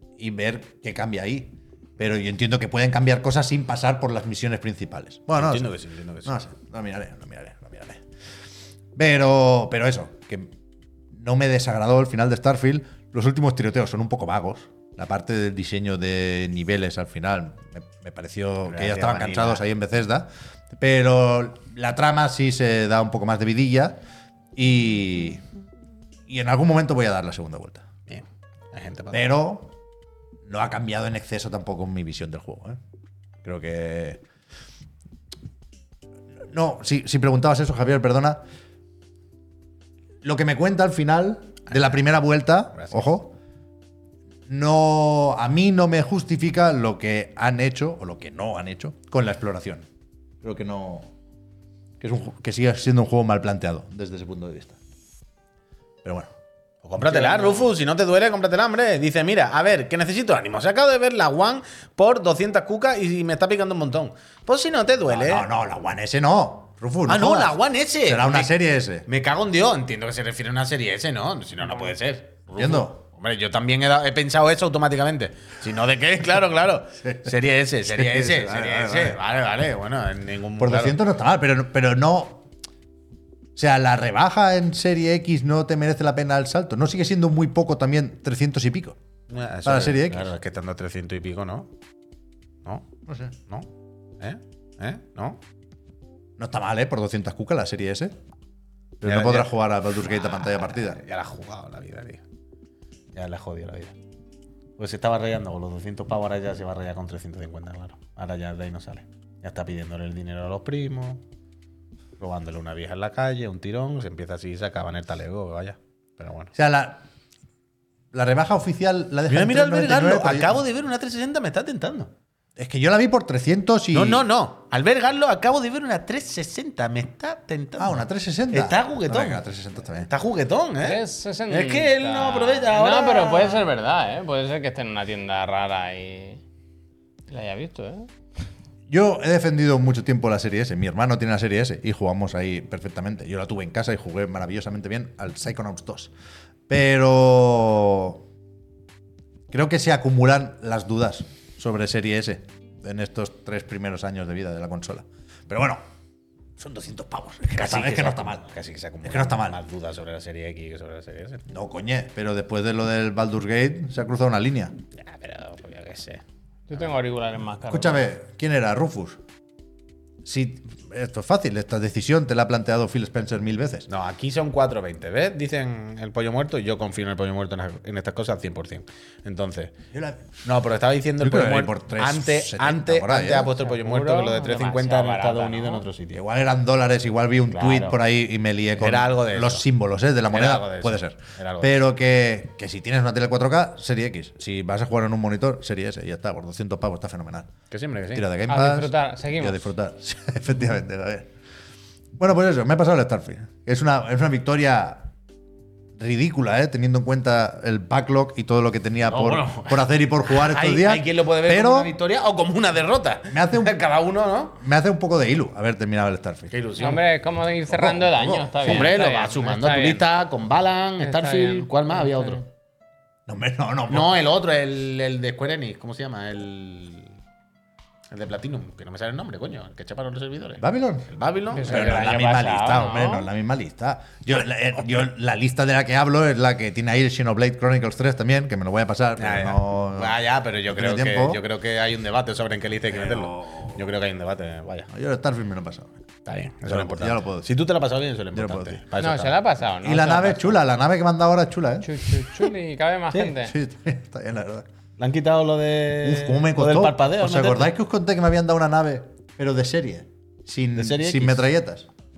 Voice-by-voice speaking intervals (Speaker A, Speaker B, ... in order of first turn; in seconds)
Speaker A: 0.2-5.7, 6.2-8.0, 8.9-10.5, 11.1-24.0, 24.5-25.4, 26.3-27.9, 29.1-29.7, 30.4-32.8, 33.4-34.2, 36.5-38.4, 40.2-43.4, 44.5-49.9, 50.4-51.1, 52.0-54.8, 56.0-56.3, 57.0-57.7, 65.1-69.0, 72.6-73.0, 77.0-77.3, 77.8-79.2, 80.6-82.4, 83.5-89.0, 89.6-90.3, 93.1-93.3, 96.4-98.1, 99.0-101.0, 116.5-117.0, 118.1-120.6, 122.6-124.3, 127.8-130.1, 138.9-146.1, 146.7-148.2, 149.5-155.8, 156.6-158.4, 159.0-159.6, 161.5-164.7, 167.7-169.2, 170.2-173.9, 179.9-180.3, 181.2-183.5, 186.1-197.5, 198.1-201.3, 202.2-205.1, 206.0-211.9, 213.3-213.8, 214.6-216.5, 217.7-218.8, 223.3-224.2, 230.6-231.1, 231.6-241.4, 242.9-243.8, 244.9-245.9, 246.6-247.5, 248.3-248.8, 249.8-251.9, 253.3-254.7, 256.0-261.9
Speaker B: 5.3-6.4, 18.7-19.6, 28.1-29.2, 42.8-43.1, 56.8-65.5, 67.1-68.5, 69.1-81.0, 89.3-91.7, 94.2-95.4, 99.0-99.5, 100.2-102.2, 103.1-103.9, 104.8-111.2, 112.2-116.5, 119.3-122.1, 123.9-129.4, 130.0-133.7, 157.5-161.4, 165.0-166.2, 173.9-179.7, 180.4-186.2, 187.5-188.0, 188.8-189.6, 190.3-191.8, 197.7-198.2, 209.0-214.6, 216.5-217.0, 218.6-222.4, 223.9-227.2, 228.1-232.4, 239.2-244.9, 246.2-249.4, 255.0-257.7, 260.8-261.4
Speaker C: 130.8-136.4, 137.3-138.1, 166.7-168.1, 183.6-185.8, 198.5-199.6, 216.8-220.0, 221.0-222.4, 231.5-233.3, 249.0-250.6, 251.8-253.5